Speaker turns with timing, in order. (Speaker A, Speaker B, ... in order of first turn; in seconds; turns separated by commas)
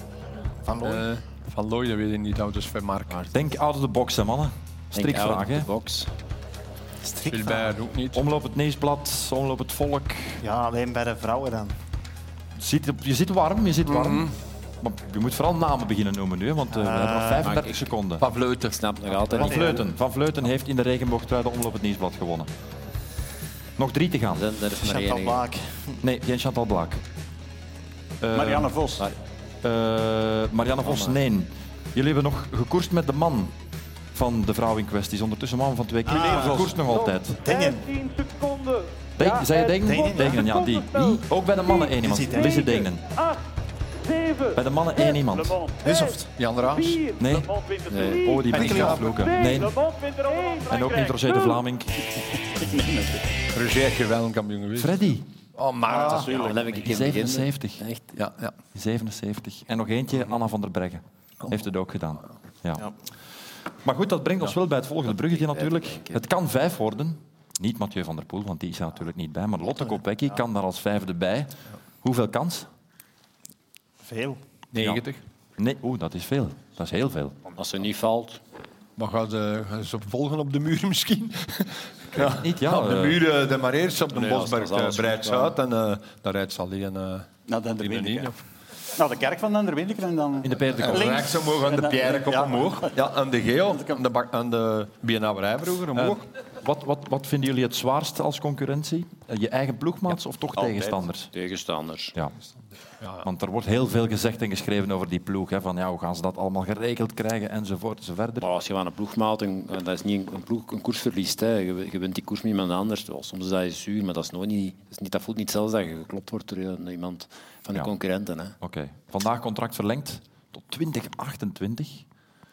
Speaker A: 0.7-1.1, Speaker B: 0.8-3.3, Speaker C: 3.3-5.7, Speaker D: 4.9-6.1, Speaker A: 7.0-7.8, Speaker B: 7.3-8.2, Speaker C: 8.1-10.4, Speaker A: 10.4-11.7, Speaker C: 12.6-18.2, Speaker B: 14.0-14.3, Speaker A: 16.7-17.7, Speaker D: 17.4-17.8, Speaker B: 18.2-18.8, Speaker D: 18.7-19.8, Speaker C: 19.4-22.5, Speaker A: 19.4-19.8, Speaker C: 23.8-24.5, Speaker D: 24.3-25.4, Speaker A: 24.8-26.0, Speaker C: 26.0-27.0, Speaker C: 28.2-28.7, Speaker E: 28.3-29.0, Speaker C: 29.6-33.5, Speaker D: 30.9-31.1, Speaker C: 34.1-37.5, Speaker A: 36.1-36.6, Speaker E: 36.1-36.7, Speaker B: 36.2-36.7, Speaker A: 37.4-37.9, Speaker C: 39.2-43.1, Speaker A: 39.8-40.5, Speaker A: 42.0-42.9, Speaker C: 44.5-45.7, Speaker A: 45.8-46.3, Speaker B: 46.3-47.1, Speaker C: 47.2-50.0, Speaker D: 47.9-48.4, Speaker B: 48.5-49.3, Speaker A: 48.5-49.0, Speaker C: 50.6-51.9, Speaker E: 52.5-53.3, Speaker B: 53.5-55.0, Speaker C: 54.8-55.3, Speaker B: 55.5-56.9, Speaker E: 55.9-56.6, Speaker D: 56.3-58.1, Speaker C: 56.8-57.8, Speaker B: 58.1-58.5, Speaker C: 58.7-62.9, Speaker C: 63.8-72.7, Speaker D: 65.1-66.2, Speaker A: 74.0-74.4, Speaker B: 74.7-75.2, Speaker C: 74.8-75.0, Speaker C: 75.6-77.4, Speaker D: 77.6-78.4, Speaker B: 79.0-87.3, Speaker C: 82.1-83.2, Speaker D: 84.1-85.6, Speaker E: 87.5-88.3, Speaker B: 87.8-88.4, Speaker E: 89.0-93.0, Speaker C: 90.4-91.3, Speaker B: 90.8-96.2, Speaker C: 95.9-101.3, Speaker E: 100.6-101.0, Speaker D: 101.3-102.2, Speaker B: 103.0-103.3, Speaker C: 103.2-108.5, Speaker D: 108.4-118.5, Speaker C: 118.6-122.1